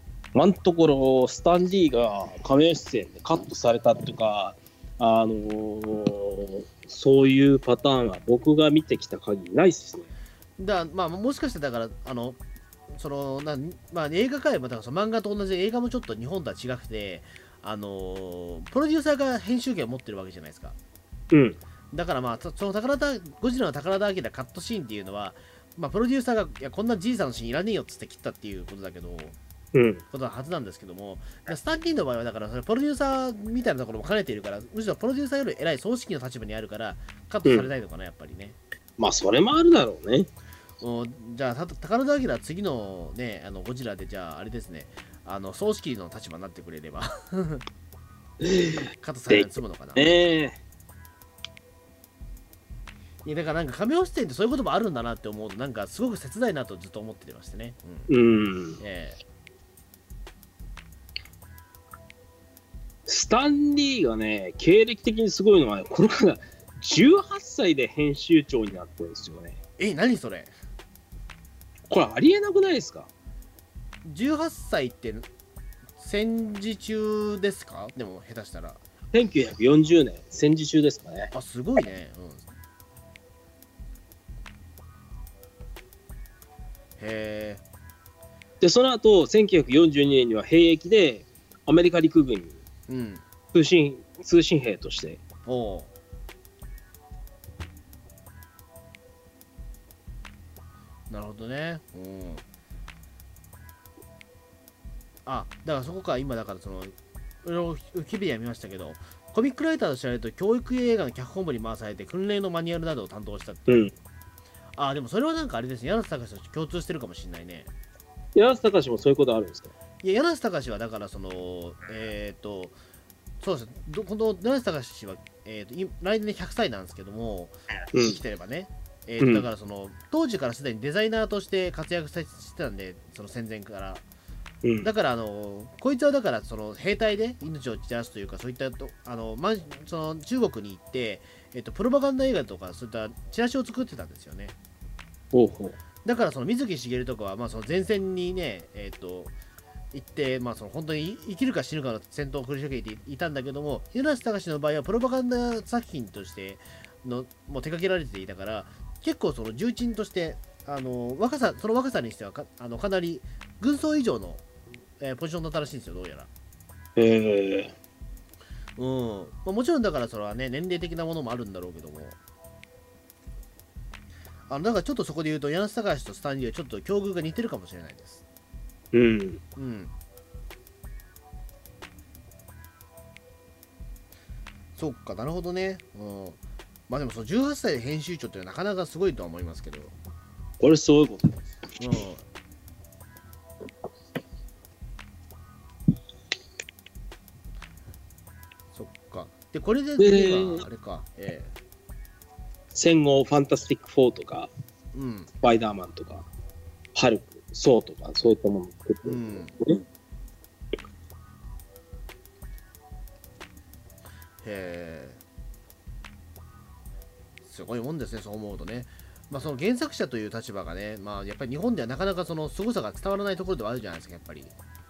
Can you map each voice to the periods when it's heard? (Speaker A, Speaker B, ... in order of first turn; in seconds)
Speaker A: 0.3-10.1, 21.3-21.6, 29.7-30.0, 37.4-37.7, 39.0-40.3, 48.4-50.6, 58.1-58.8, 63.1-69.6, 71.9-73.1, 79.1-81.3, 88.6-92.6, 93.5-95.2, 113.7-113.9, 118.3-119.7, 127.9-128.2, 129.2-129.5, 134.6-134.9, 145.3-145.8, 167.0-167.7, 178.9-179.4, 190.6-191.5, 200.0-200.6, 202.7-204.5, 205.4-206.2, 206.9-209.8
Speaker B: 10.6-12.4, 12.9-20.8, 21.9-29.4, 30.1-38.6, 40.8-47.6, 49.0-50.2, 53.2-58.1, 58.8-59.2, 69.8-70.5, 74.0-75.3, 76.0-78.8, 81.3-82.5, 87.0-87.6, 92.9-93.2, 95.4-95.9, 101.1-102.4, 105.2-113.9, 114.8-117.7, 120.0-122.8, 123.4-134.0, 134.8-144.6, 146.0-149.3, 149.9-164.4, 165.0-166.3, 168.8-172.2, 174.5-178.2, 179.6-179.9, 184.8-189.9, 191.8-192.2, 198.7-201.5, 204.9-205.3, 209.0-209.6, 214.4-215.2, 217.4-224.5